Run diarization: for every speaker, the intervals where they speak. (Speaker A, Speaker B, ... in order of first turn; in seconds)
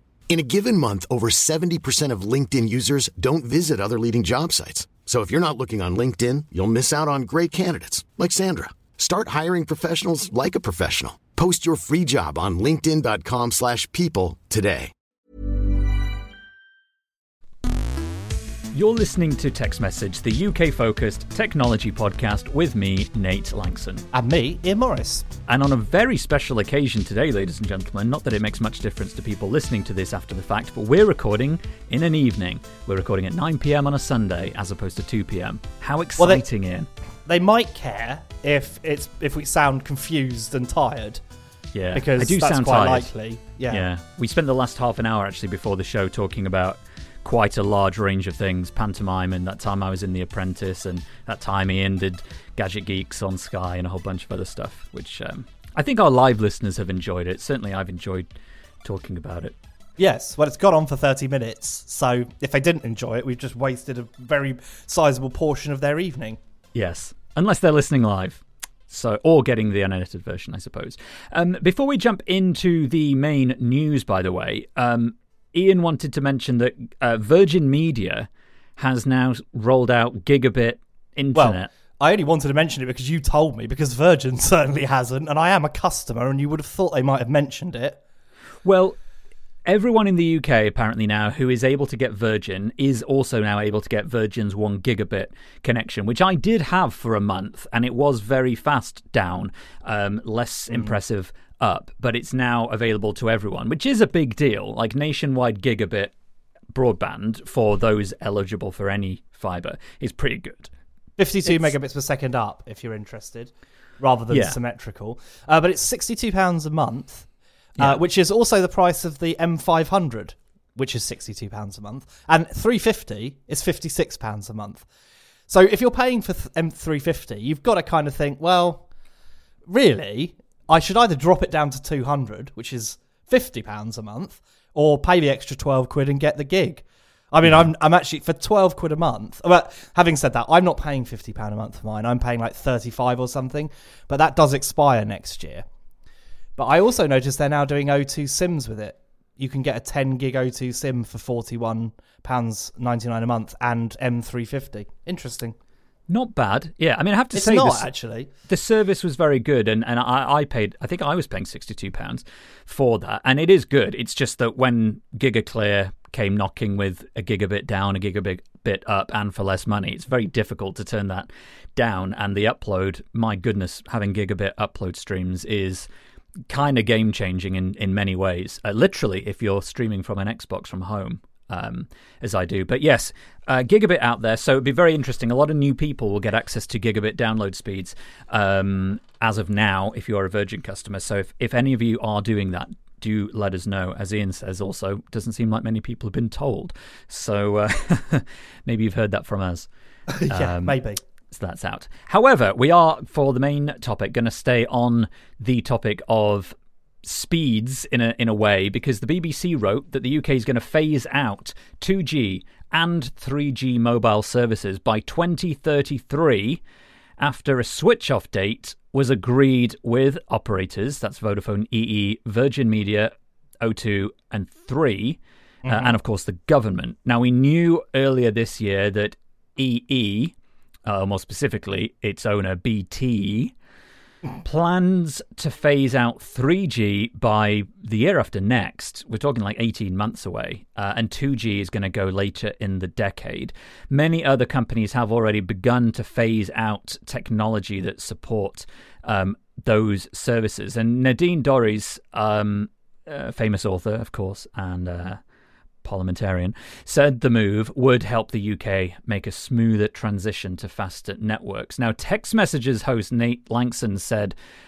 Speaker A: 0.3-14.9
Speaker B: 18.7-24.0, 25.5-36.9, 41.7-43.1, 43.7-58.3, 58.8-59.5, 66.7-81.7, 88.6-89.0, 89.6-106.1, 106.7-110.7, 114.3-114.6, 156.1-157.9, 158.5-175.9, 176.5-199.7, 200.3-200.8, 201.3-216.6, 217.2-230.3, 230.8-233.5, 234.3-255.2, 255.8-264.3
Speaker C: 24.1-25.2, 36.2-36.4, 37.2-41.2, 41.9-43.9, 60.0-66.4, 81.3-88.0, 111.2-117.3, 117.8-124.8, 125.5-128.8, 129.7-145.6, 146.6-155.6, 157.3-158.3, 200.1-201.0, 225.6-225.9